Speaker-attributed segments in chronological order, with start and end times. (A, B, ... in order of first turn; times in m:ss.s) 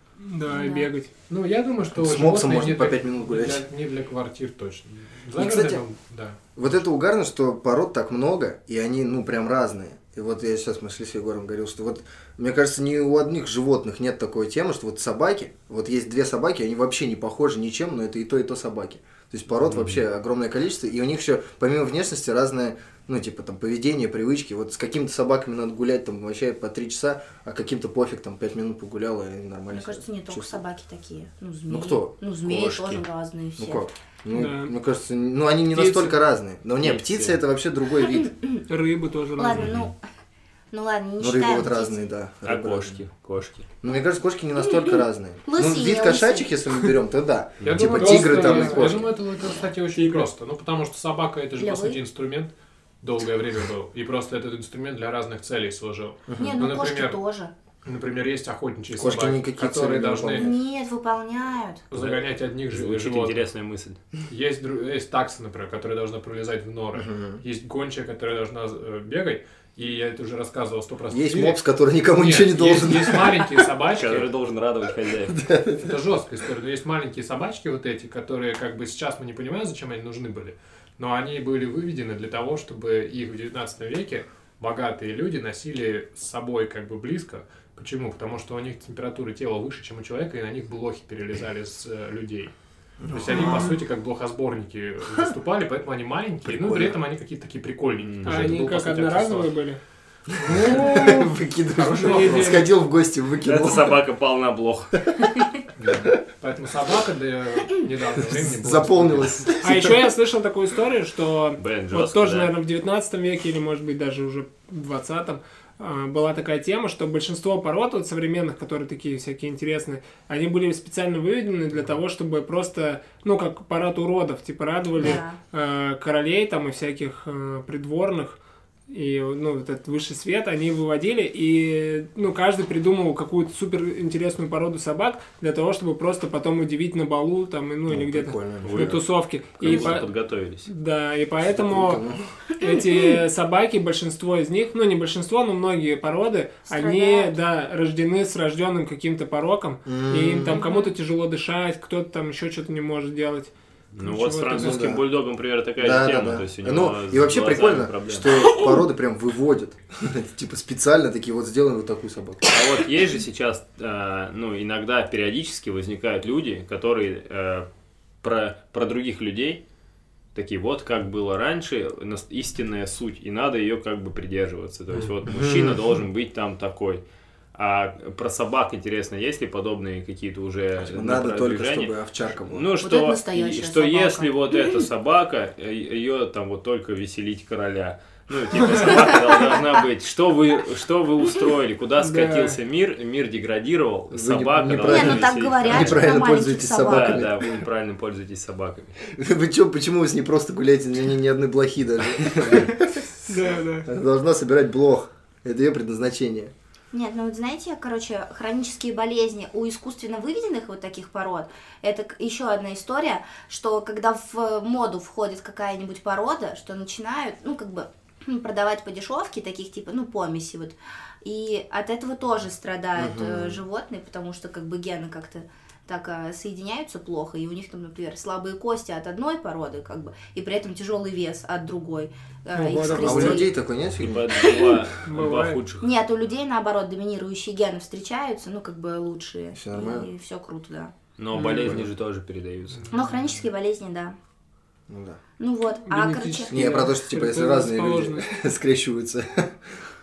0:00.2-0:01.1 A
0:00.5-0:00.9 B
0:01.3-0:06.4 C
0:02.0-0:03.7 D
0:05.4-0:05.8 D
0:06.6-0:30.6 D
0:29.7-0:33.9 B
0:31.7-0:32.7 D
0:32.4-0:33.0 E
0:33.6-0:38.3 D
0:34.3-0:34.7 A
0:35.7-0:36.1 A
0:36.8-0:37.4 E
0:38.1-0:38.6 B
0:38.7-0:39.7 A
0:39.4-0:40.0 B
0:39.5-0:39.9 E
0:40.7-0:42.0 B
0:41.2-0:43.0 D
0:42.4-0:43.7 E
0:43.8-0:49.1 D
0:45.4-0:46.9 B
0:47.6-0:48.0 E
0:47.6-0:57.2 C
0:48.0-0:48.9 A
0:50.0-0:50.2 A
0:51.6-0:52.0 B
0:56.3-0:56.5 D
0:56.4-0:57.5 B
0:57.8-1:00.5 C
0:58.9-1:00.5 D
1:00.3-1:01.9 B
1:01.9-1:03.5 C
1:01.9-1:04.0 E
1:04.3-1:14.3 C
1:07.0-1:07.4 D
1:11.1-1:13.7 D
1:13.9-1:15.4 E
1:15.3-1:15.9 D
1:15.8-1:32.5 C
1:33.0-1:33.7 D
1:33.1-1:39.5 C
1:36.5-1:37.0 D
1:38.0-1:38.5 E
1:38.2-1:39.8 A
1:40.4-1:41.2 C
1:40.5-1:42.7 A
1:40.5-1:44.0 D
1:42.1-1:42.5 C
1:43.4-1:45.1 E
1:45.0-1:45.4 D
1:45.8-1:49.4 C
1:48.4-1:50.1 D
1:49.6-2:08.4 A
1:51.6-1:52.5 E
2:05.0-2:05.4 B
2:08.9-2:20.1 A
2:17.9-2:19.0 D
2:18.6-2:19.0 E
2:19.6-2:20.7 E
2:20.7-2:22.0 A
2:21.5-2:22.2 D
2:22.6-2:34.8 A
2:26.7-2:27.3 B
2:29.9-2:30.6 D
2:30.5-2:30.9 B
2:34.0-2:38.3 E
2:34.5-2:35.0 D
2:35.8-2:42.5 D
2:42.5-2:47.7 E
2:48.2-2:49.6 E
2:50.4-2:57.0 E
2:55.3-2:55.8 D
2:57.6-3:16.1 E
3:00.8-3:02.7 D
3:02.8-3:04.6 B
3:12.0-3:12.6 A
3:14.1-3:17.6 D
3:14.8-3:17.2 B
3:16.8-3:19.0 E
3:19.0-3:23.1 D
3:22.3-3:22.7 E
3:23.3-3:23.9 A
3:23.8-3:26.5 D
3:26.9-3:53.5 B
3:43.0-3:43.6 D
3:52.5-3:53.5 A
3:52.9-3:54.3 D
3:54.0-3:55.9 E
3:54.4-3:54.8 B
3:55.0-3:55.6 A
3:55.8-4:00.9 B
3:59.5-4:00.1 D
4:01.2-4:02.9 E
4:01.4-4:01.8 A
4:01.6-4:01.9 D
4:02.9-4:04.2 B
4:04.9-4:05.2 D
4:05.4-4:06.6 B
4:05.9-4:08.3 A
4:06.5-4:09.5 D